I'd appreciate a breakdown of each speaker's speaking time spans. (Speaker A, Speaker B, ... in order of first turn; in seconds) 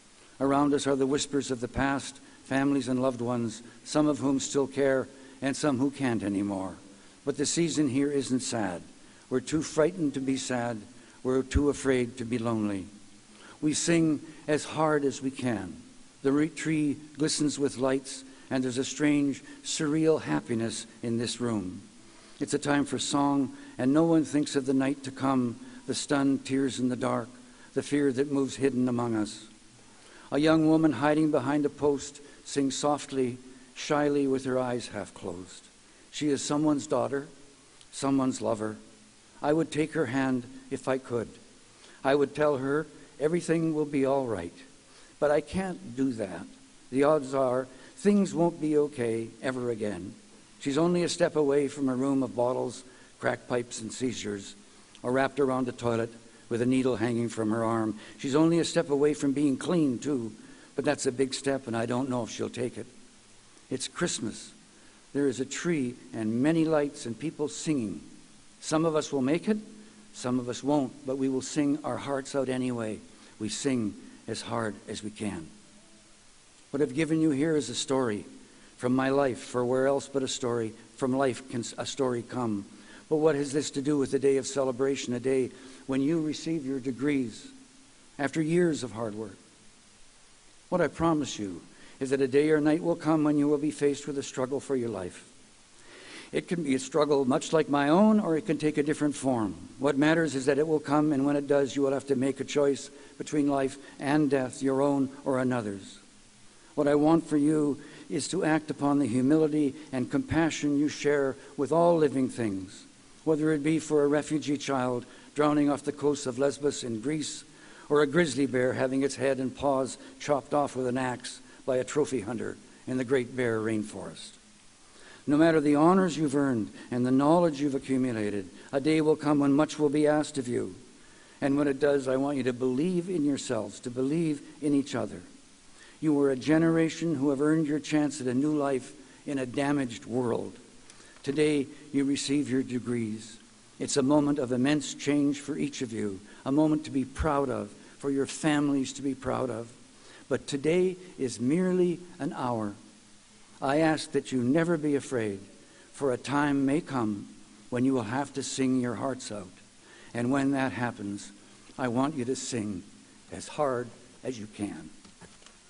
Speaker A: 0.4-12.9, 13.6-21.9, 22.4-29.5, 30.3-37.3, 37.9-38.8, 39.4-41.4, 42.0-44.6, 45.2-62.9, 63.7-64.5, 65.1-68.1, 68.6-75.5, 76.7-78.3, 78.8-87.5, 88.2-89.4, 90.7-95.3, 96.3-106.0, 106.8-124.4, 125.2-130.8, 131.4-135.3, 136.0-140.6, 141.2-149.8, 150.3-152.8, 153.6-159.6, 160.1-164.9